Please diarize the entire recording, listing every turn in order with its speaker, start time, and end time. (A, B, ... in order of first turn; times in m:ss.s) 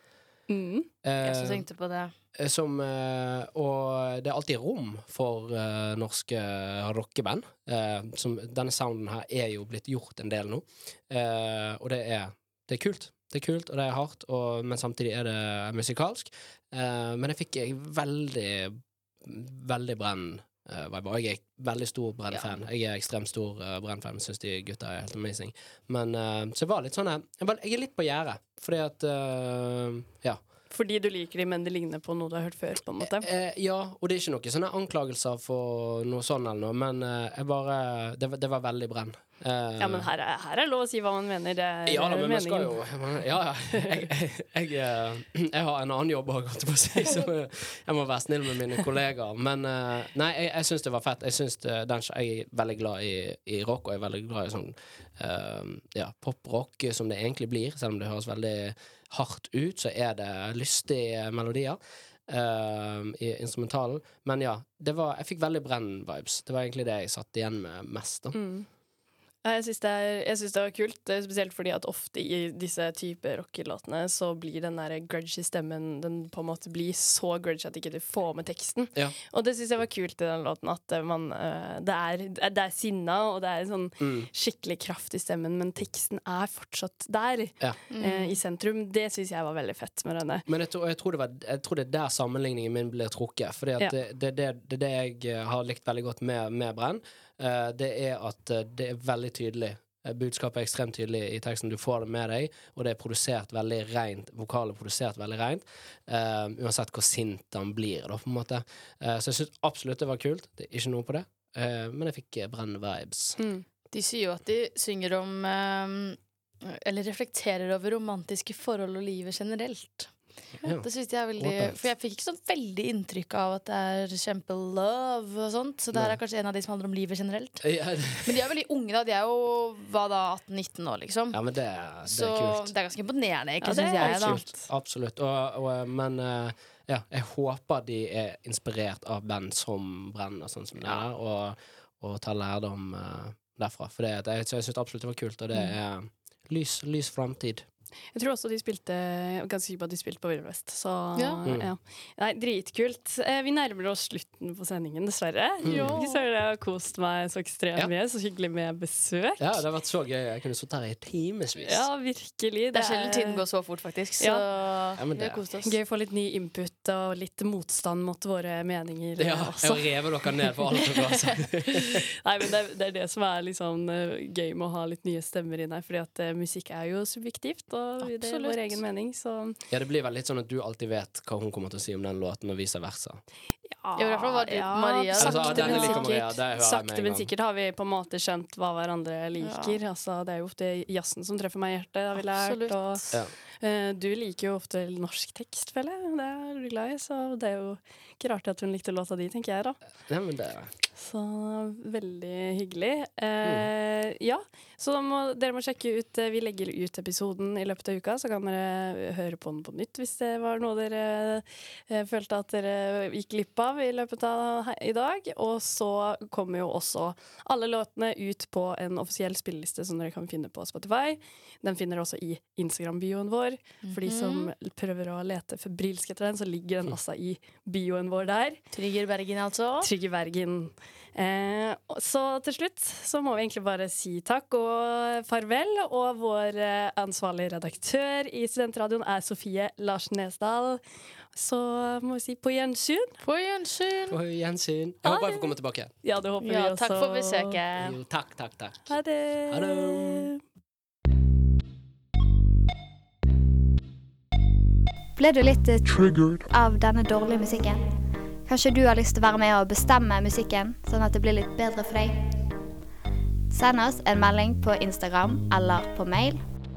0:00.5-0:00.9 A
0:01.0-0:01.6 B
0:01.2-0:02.1 C
0:02.4-0:30.4 B
0:30.7-0:33.3 A
0:33.0-0:40.1 B
0:39.8-0:42.8 A
0:41.8-1:08.3 B
1:08.3-1:08.7 A
1:09.4-1:30.4 A
1:24.0-1:24.3 B
1:27.9-1:28.4 C
1:30.5-1:53.4 B
1:53.4-1:53.6 A
1:53.9-2:11.4 C
2:01.4-2:01.8 B
2:07.6-2:08.4 B
2:11.3-2:12.7 B
2:12.1-2:14.4 C
2:13.6-2:14.6 A
2:14.0-2:27.6 B
2:28.1-2:39.6 A
2:31.4-2:31.7 B
2:35.6-2:36.0 B
2:35.7-2:36.2 C
2:39.4-2:41.8 B
2:41.6-2:43.4 A
2:42.7-2:45.7 C
2:44.2-2:44.4 A
2:45.0-2:45.4 B
2:45.6-2:50.6 A
2:49.2-2:52.0 B
2:51.6-2:59.6 A
2:58.0-2:58.8 C
2:59.7-3:03.2 B
3:03.7-3:13.0 A
3:04.0-3:06.2 C
3:05.2-3:07.3 B
3:09.4-3:09.8 C
3:12.2-3:13.2 C
3:13.6-3:19.8 A
3:20.1-3:20.7 B
3:21.0-3:48.6 A
3:43.8-3:44.5 C
3:48.7-3:49.9 C
3:49.8-4:00.8 A
4:01.3-4:03.2 A
4:03.2-4:04.2 C
4:04.1-4:05.9 B
4:05.0-4:05.5 A
4:06.0-4:07.6 A
4:06.4-4:07.9 C
4:07.8-4:09.0 B
4:08.9-4:10.4 A
4:09.5-4:10.3 B
4:15.2-4:17.8 D
4:18.4-4:22.2 D
4:23.5-4:26.4 D